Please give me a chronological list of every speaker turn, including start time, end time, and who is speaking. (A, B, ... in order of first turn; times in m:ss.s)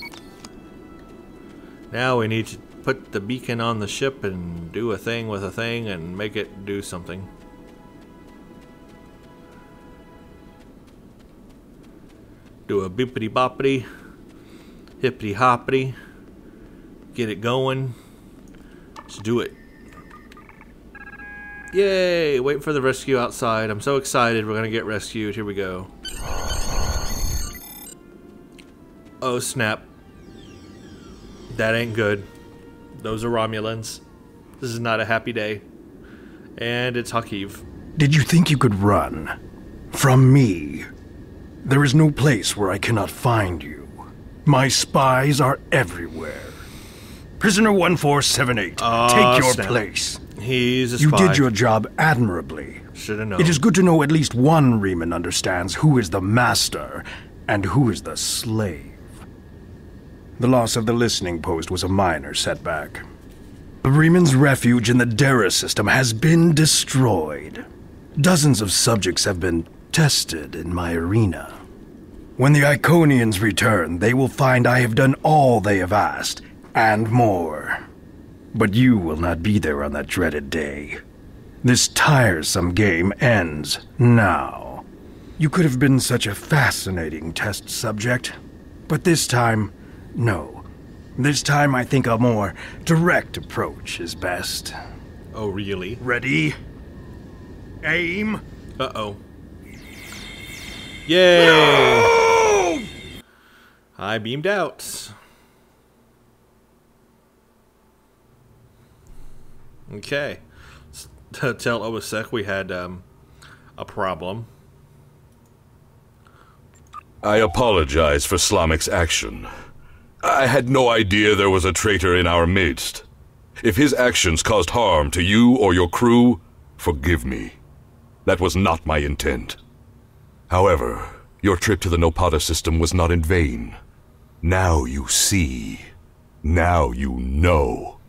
0:01.9-0:07.3 A
0:12.7-0:13.9 A
0:15.0-0:16.0 A
0:17.1-0:18.0 A
0:19.1-0:19.6 A
0:21.7-0:25.9 A
0:29.2-0:29.9 A
0:31.5-0:32.3 A
0:33.0-0:34.0 A
0:34.6-0:35.6 A
0:36.6-0:37.6 A
0:38.0-0:39.4 B
0:39.9-0:40.9 B
0:41.6-0:46.6 B
0:47.4-0:50.2 B
0:48.8-0:49.8 A
0:50.3-0:51.5 A
0:51.0-0:52.8 B
0:52.9-0:53.6 A
0:53.4-0:59.2 B
1:00.4-1:03.0 B
1:03.8-1:07.6 B
1:08.2-1:11.6 B
1:12.4-1:17.8 B
1:18.5-1:21.0 B
1:21.6-1:24.8 B
1:25.4-1:28.4 B
1:28.9-1:34.8 B
1:35.3-1:36.0 A
1:36.0-1:36.6 B
1:37.8-1:38.4 B
1:38.8-1:39.2 A
1:41.1-1:42.2 A
1:41.4-1:42.8 B
1:44.0-1:45.2 A
1:49.9-1:53.1 A
1:53.8-1:54.5 A
1:57.2-1:59.5 C
2:00.2-2:03.0 C
2:03.6-2:07.6 C
2:08.2-2:09.6 C
2:10.5-2:13.8 C
2:14.4-2:15.9 C
2:16.4-2:18.0 C